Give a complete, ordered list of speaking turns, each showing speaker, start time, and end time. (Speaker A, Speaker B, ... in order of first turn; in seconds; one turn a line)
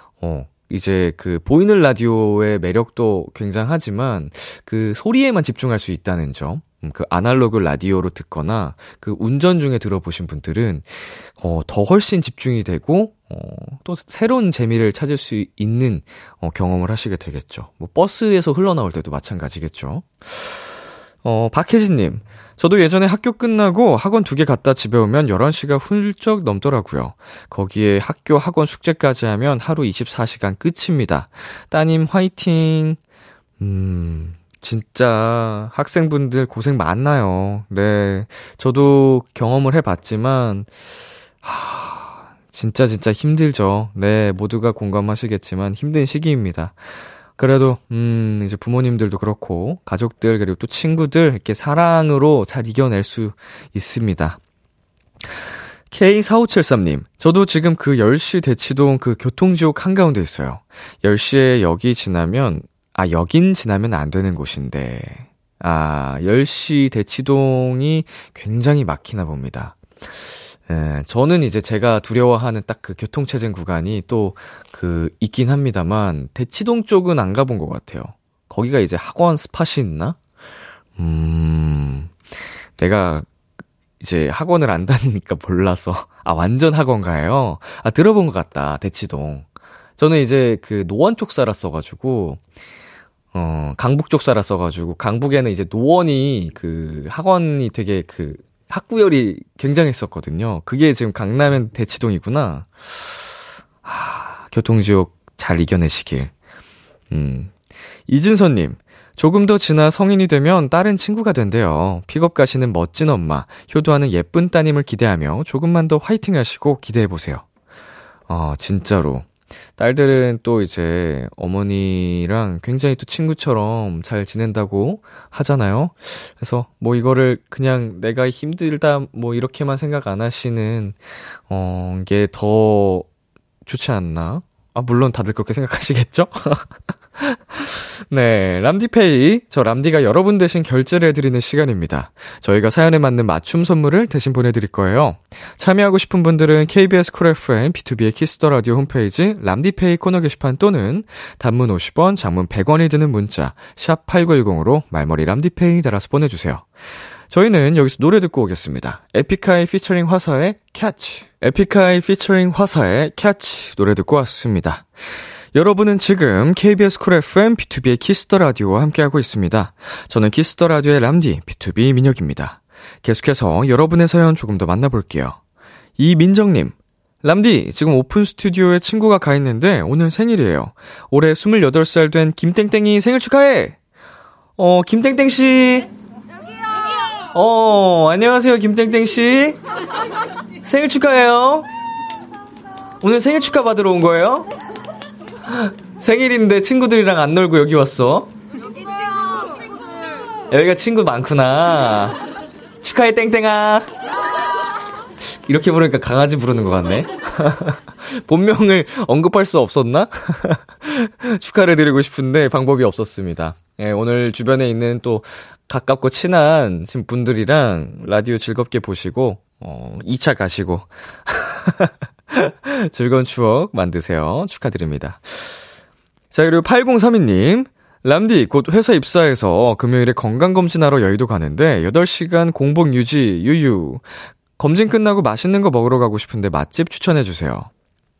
Speaker A: 0.2-20.7
Speaker A: 21.2-33.0
Speaker A: 33.6-40.7
Speaker A: 41.4-46.8
Speaker A: 47.4-54.4
Speaker A: 55.9-69.8
Speaker A: 70.7-80.2
Speaker A: 81.0-82.1
Speaker A: 82.8-83.2
Speaker A: 84.0-89.5
Speaker A: 90.0-92.4
Speaker A: 93.3-103.0
Speaker A: 103.8-106.3
Speaker A: 107.1-107.5
Speaker A: 108.1-117.4
Speaker A: 118.3-119.2
Speaker A: 119.8-133.1
Speaker A: 133.7-156.7
Speaker A: 157.3-164.8
Speaker A: 165.5-175.4
Speaker A: 176.0-183.8
Speaker A: 184.6-185.9
Speaker A: 187.3-189.6
Speaker A: 190.6-191.7
Speaker A: 193.0-194.5
Speaker A: 195.5-198.3
Speaker A: 200.5-202.2
Speaker A: 202.8-203.9
Speaker A: 205.2-225.6
Speaker A: 226.3-234.1
Speaker A: 234.6-237.7